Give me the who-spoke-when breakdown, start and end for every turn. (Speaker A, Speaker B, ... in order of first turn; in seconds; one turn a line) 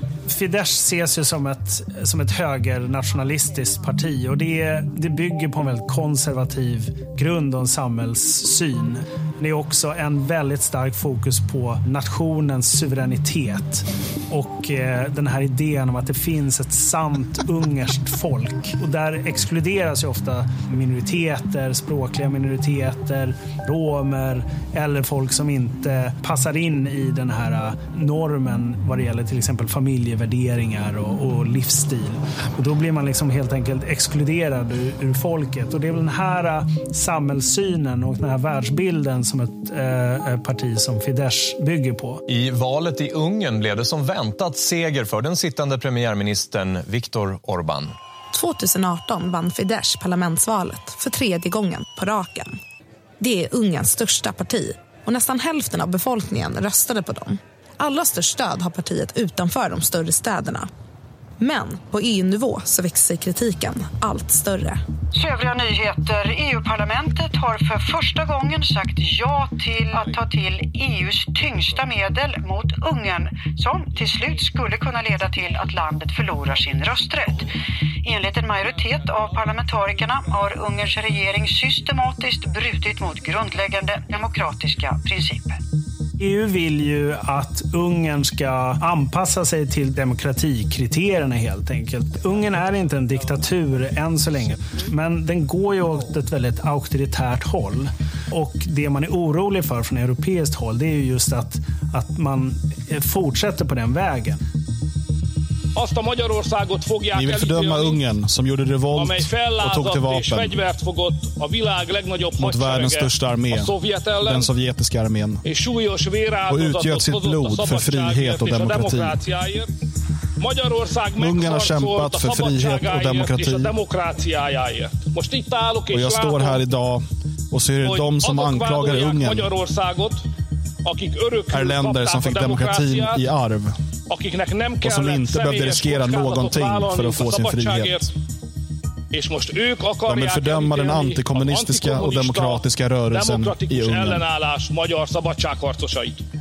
Speaker A: 0.3-42.2
Speaker B: 42.3-48.0
Speaker C: 48.3-52.6
Speaker C: 53.2-60.7
Speaker C: 61.4-64.8
Speaker D: 65.1-77.5
Speaker D: 78.0-85.6
Speaker A: 86.2-104.4
Speaker E: 105.8-108.0
Speaker F: 107.1-110.7
Speaker E: 108.9-114.5
Speaker F: 112.3-115.5
Speaker E: 115.4-119.7
Speaker F: 116.4-119.3
Speaker E: 120.4-126.6
Speaker F: 121.1-123.8
Speaker F: 125.9-129.6
Speaker E: 127.8-130.2
Speaker E: 130.8-133.2
Speaker F: 131.5-133.8
Speaker E: 134.1-138.1
Speaker F: 134.8-138.1
Speaker E: 139.1-146.2
Speaker F: 140.0-144.3